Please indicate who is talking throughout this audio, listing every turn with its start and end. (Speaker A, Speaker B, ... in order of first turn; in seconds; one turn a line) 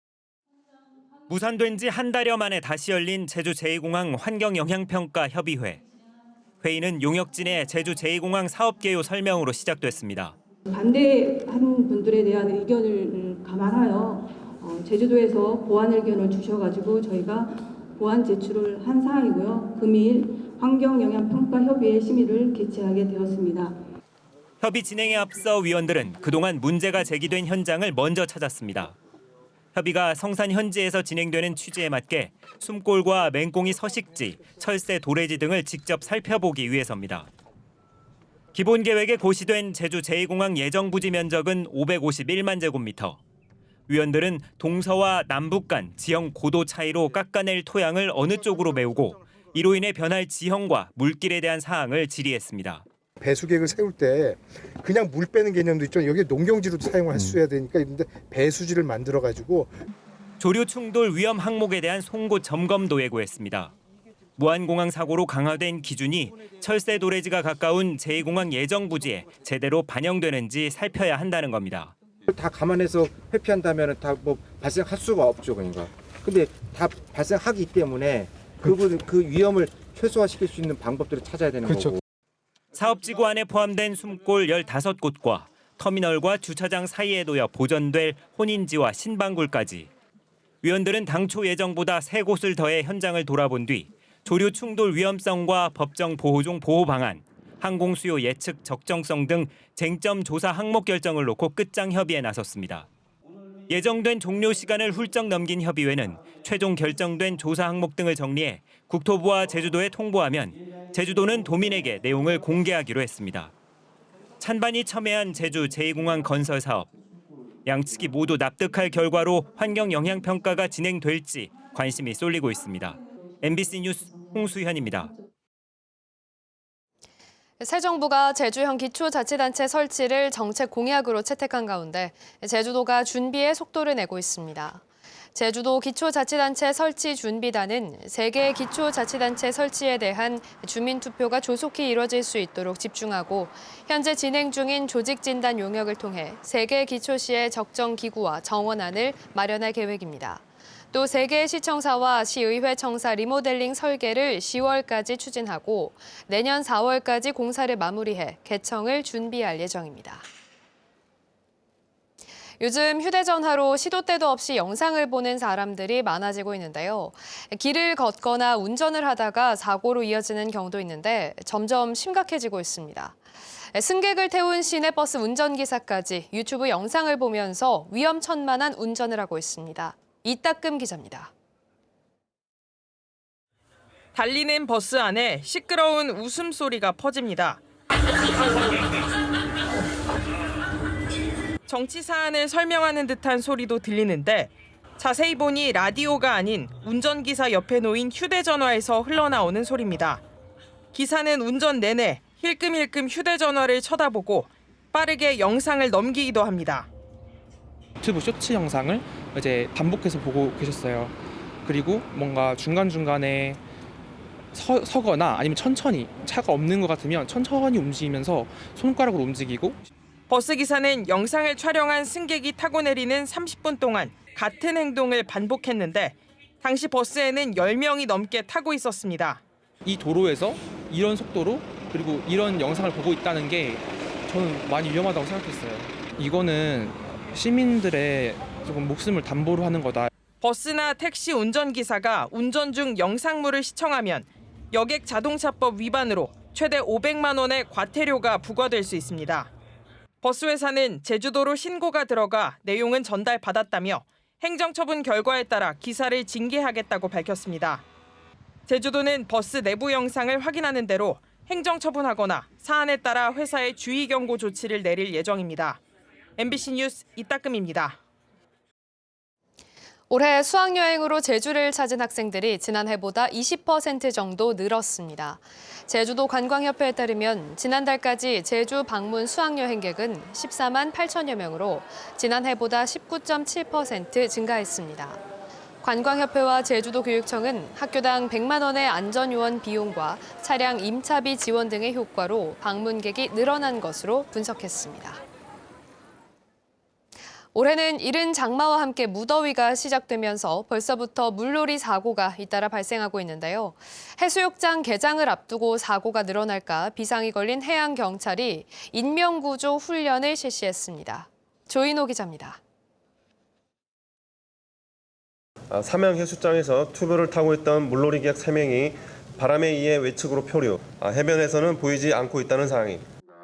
Speaker A: 1.3-5.8
Speaker A: 6.6-10.3
Speaker B: 10.7-23.8
Speaker A: 24.6-29.0
Speaker A: 29.8-37.3
Speaker A: 38.5-43.2
Speaker A: 43.9-52.8
Speaker C: 53.2-59.7
Speaker A: 60.4-63.7
Speaker A: 64.4-71.9
Speaker D: 72.3-82.0
Speaker C: 81.7-81.9
Speaker A: 82.7-89.9
Speaker A: 90.6-102.9
Speaker A: 103.7-113.5
Speaker A: 114.4-116.9
Speaker A: 117.7-125.1
Speaker E: 127.6-134.8
Speaker E: 135.3-160.3
Speaker E: 162.6-181.3
Speaker F: 184.2-187.6
Speaker F: 191.7-200.2
Speaker F: 200.9-206.9
Speaker G: 208.0-211.1
Speaker G: 211.7-213.6
Speaker G: 214.5-219.8
Speaker F: 220.3-229.4
Speaker G: 229.8-240.1
Speaker F: 240.4-249.5
Speaker F: 250.2-257.9
Speaker F: 258.7-265.8
Speaker F: 266.4-268.0
Speaker E: 270.1-285.2
Speaker E: 285.8-295.2
Speaker E: 297.5-312.6
Speaker H: 315.7-323.1